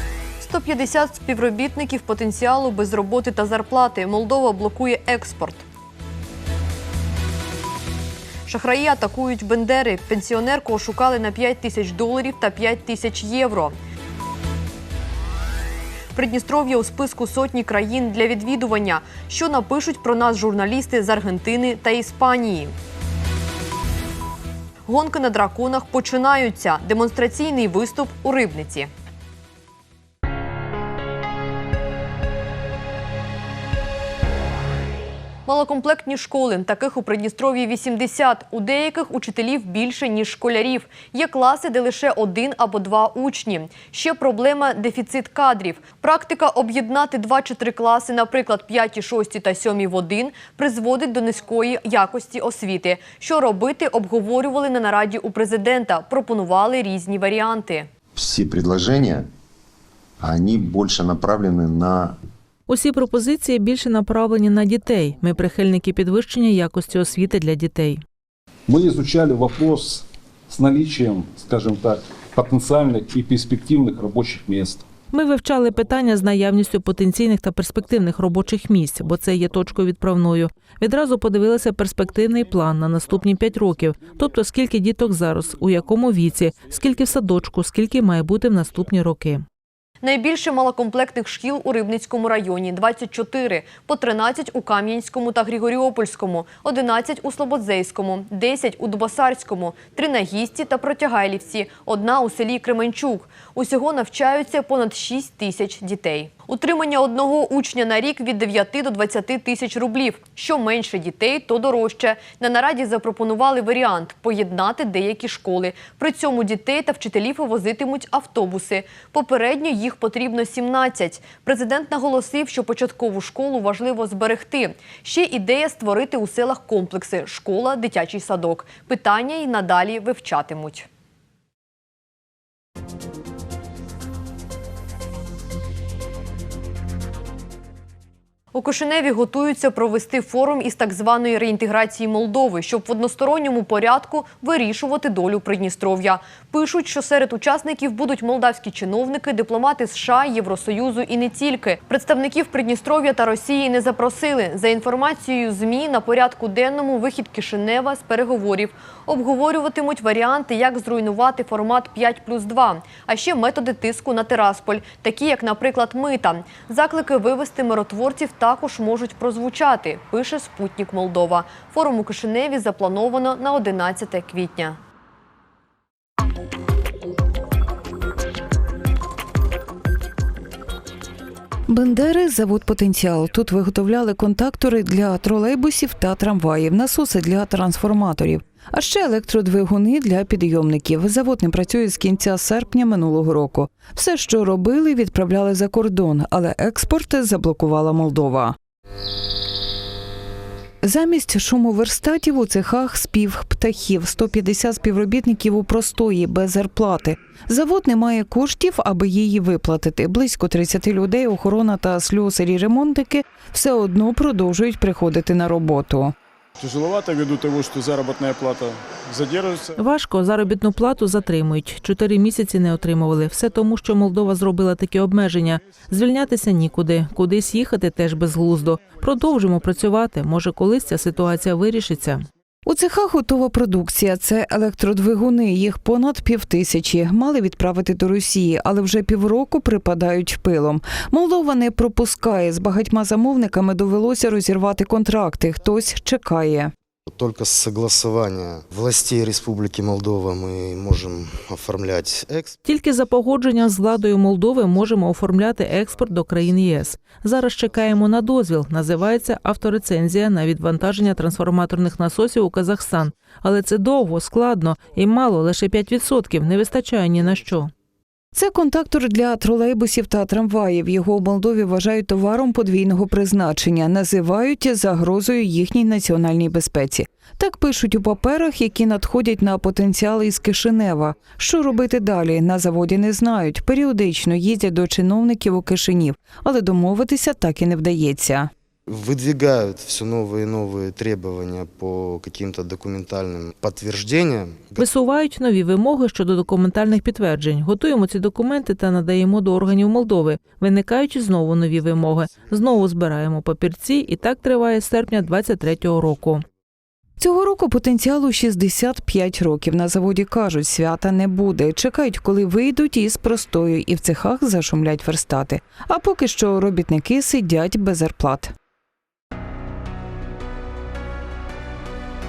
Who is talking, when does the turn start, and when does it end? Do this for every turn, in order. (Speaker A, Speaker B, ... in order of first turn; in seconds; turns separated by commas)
Speaker A: 0.4-5.6, Speaker A: 8.5-13.8, Speaker A: 16.1-22.7, Speaker A: 24.9-28.9, Speaker A: 35.5-57.9, Speaker B: 58.2-59.3, Speaker B: 60.2-62.2, Speaker C: 62.7-68.0, Speaker D: 68.7-74.8, Speaker C: 75.1-89.5, Speaker A: 90.0-130.9, Speaker A: 138.5-174.8, Speaker E: 181.7-198.6, Speaker E: 200.8-216.1, Speaker F: 216.6-219.7, Speaker C: 219.8-232.3, Speaker E: 232.7-246.7, Speaker G: 247.1-252.6, Speaker C: 252.7-267.7, Speaker E: 268.3-288.5, Speaker G: 288.9-294.8, Speaker C: 294.8-306.4, Speaker E: 307.2-318.5